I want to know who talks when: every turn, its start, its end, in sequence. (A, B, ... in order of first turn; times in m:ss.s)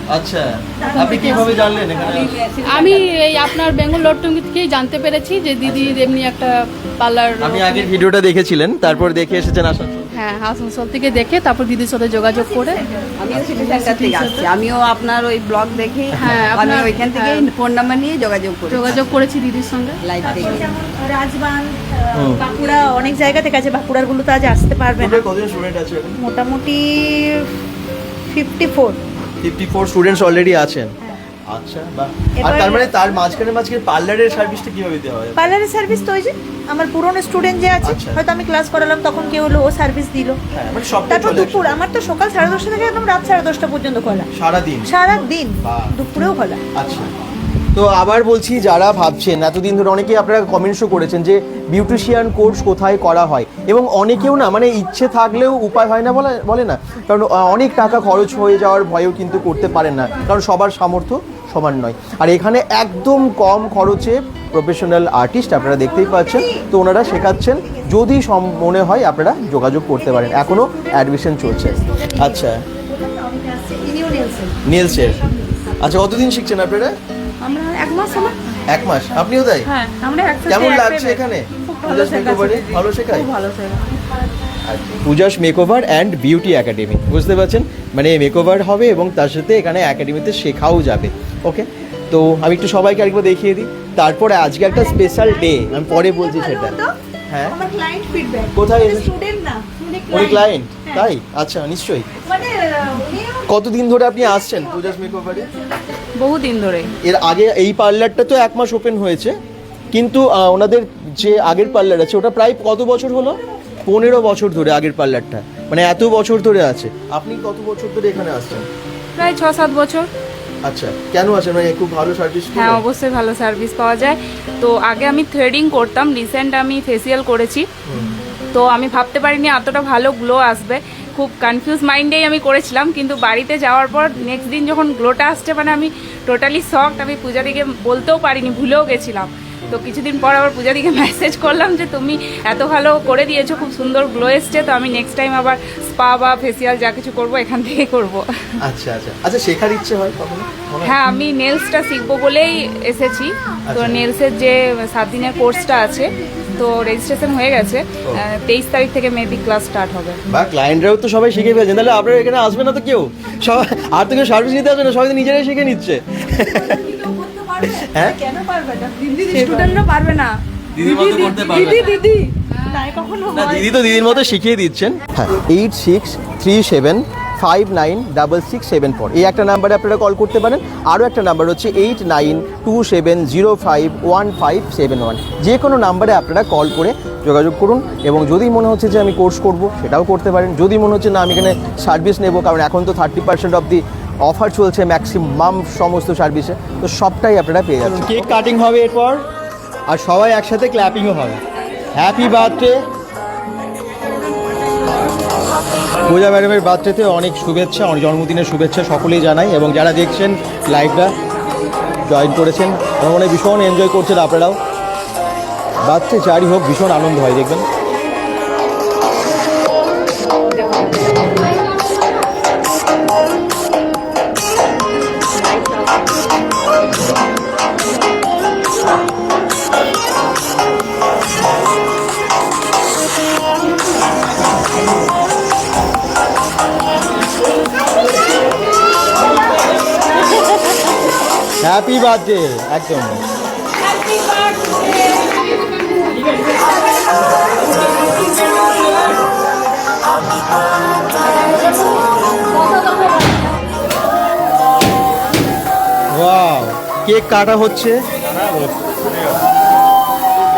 0:00.1-0:02.4 A
0:00.8-0:02.0 B
0:00.8-0:01.7 C
0:01.8-0:03.1 D
0:02.6-0:07.9 C
0:05.6-0:06.1 A
0:07.4-0:10.1 A
0:10.1-0:12.8 C
0:12.2-0:13.4 B
0:13.2-0:19.0 D
0:13.5-0:14.5 C
0:16.1-0:16.4 A
0:16.2-0:17.5 C
0:18.7-0:20.0 C
0:20.0-0:20.7 D
0:20.2-0:25.2 B
0:20.2-0:20.6 A
0:22.2-0:22.4 A
0:25.0-0:26.2 A
0:26.2-0:27.5 B
0:28.3-0:29.0 B
0:29.4-0:30.9 A
0:31.5-0:35.5 A
0:32.4-0:33.2 B
0:35.4-0:40.4 B
0:37.8-0:38.2 A
0:40.5-0:41.8 A
0:41.0-0:44.3 B
0:44.3-0:44.9 A
0:44.8-0:46.7 B
0:45.6-0:45.9 A
0:46.7-0:47.1 A
0:47.7-1:12.6 A
1:05.7-1:07.9 B
1:09.9-1:15.8 B
1:14.6-1:15.2 A
1:15.8-1:16.9 A
1:17.4-1:18.3 E
1:18.7-1:19.7 A
1:19.6-1:23.9 E
1:20.5-1:23.3 A
1:24.6-1:36.8 A
1:34.6-1:36.9 B
1:37.3-1:37.6 A
1:37.4-1:41.1 B
1:38.5-1:39.1 A
1:40.1-1:42.1 A
1:42.2-1:43.5 B
1:43.5-1:45.5 A
1:44.2-1:45.9 B
1:46.2-1:46.9 E
1:47.0-1:49.3 A
1:49.9-1:58.7 A
1:59.2-2:00.1 E
2:00.6-2:02.8 A
2:02.5-2:07.7 E
2:07.9-2:08.2 A
2:08.5-2:28.2 E
2:28.6-2:30.9 A
2:30.8-2:40.2 E
2:33.7-2:34.0 A
2:35.1-2:37.3 B
2:40.3-2:46.7 A
2:46.3-2:50.1 B
2:47.7-2:48.2 A
2:49.4-2:49.7 E
2:50.7-2:51.9 A
2:50.8-2:52.2 E
2:52.4-2:52.9 C
2:52.7-2:54.4 B
2:53.3-3:19.2 A
3:19.9-3:21.4 A
3:21.9-3:22.8 A
3:26.0-3:31.1 A
3:32.1-3:34.6 A
3:35.8-3:37.6 A
3:40.6-3:41.2 E
4:01.6-4:03.2 A
4:16.1-4:19.4 A